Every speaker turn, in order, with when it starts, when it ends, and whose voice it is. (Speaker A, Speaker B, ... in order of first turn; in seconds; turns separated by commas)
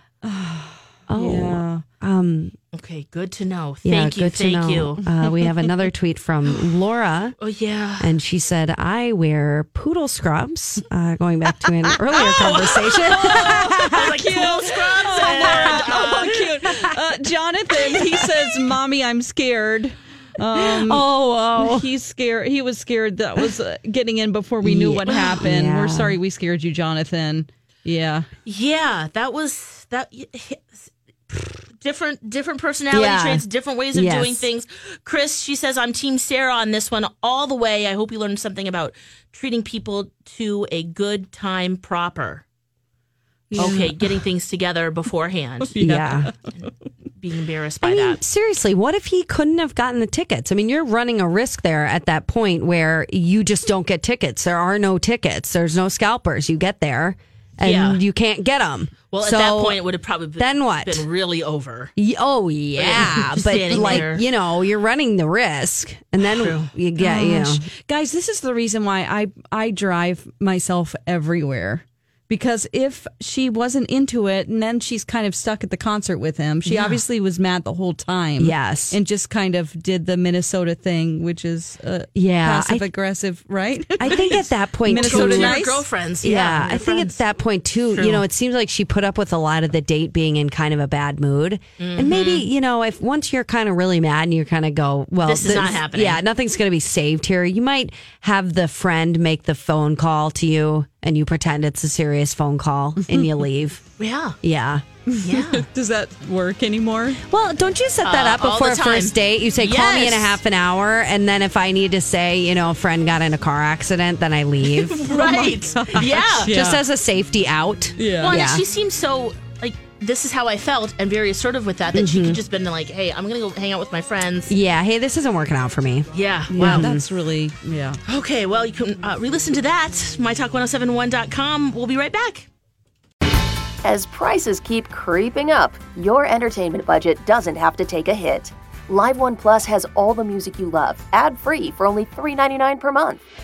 Speaker A: 0.2-1.8, Speaker B: 1.1-2.5, Speaker C: 2.7-5.0, Speaker B: 3.8-7.3, Speaker C: 7.4-8.1, Speaker B: 8.0-14.1, Speaker C: 12.1-16.4, Speaker A: 13.3-28.3, Speaker B: 20.5-21.9, Speaker B: 24.6-26.2, Speaker C: 25.1-25.3, Speaker C: 28.4-42.4, Speaker B: 32.9-34.5, Speaker A: 43.5-44.2, Speaker B: 43.5-43.8, Speaker C: 43.6-45.7, Speaker A: 45.6-46.7, Speaker B: 45.8-46.3, Speaker C: 47.2-48.2, Speaker B: 47.8-59.8, Speaker C: 57.6-58.0, Speaker C: 59.1-61.9, Speaker B: 60.4-61.0, Speaker B: 62.0-67.7, Speaker C: 62.8-64.2, Speaker A: 63.7-64.0, Speaker C: 66.2-66.7, Speaker A: 67.0-85.9, Speaker C: 76.6-77.0, Speaker B: 78.4-79.0, Speaker B: 82.1-82.9, Speaker B: 84.0-85.6, Speaker C: 84.9-87.2, Speaker B: 86.2-103.8, Speaker C: 87.9-88.2, Speaker C: 91.8-92.5, Speaker C: 95.2-96.2, Speaker A: 103.0-103.3, Speaker C: 104.0-104.4, Speaker B: 104.4-104.8, Speaker A: 105.1-107.2, Speaker C: 105.2-105.6, Speaker B: 107.3-115.5, Speaker C: 108.0-110.4, Speaker C: 114.6-116.5, Speaker A: 115.1-116.8, Speaker B: 116.3-118.6, Speaker A: 118.0-118.4, Speaker C: 118.2-124.5, Speaker B: 121.9-122.4, Speaker B: 124.5-127.0, Speaker C: 126.1-126.9, Speaker A: 126.5-128.0, Speaker C: 128.1-132.5, Speaker D: 133.8-143.2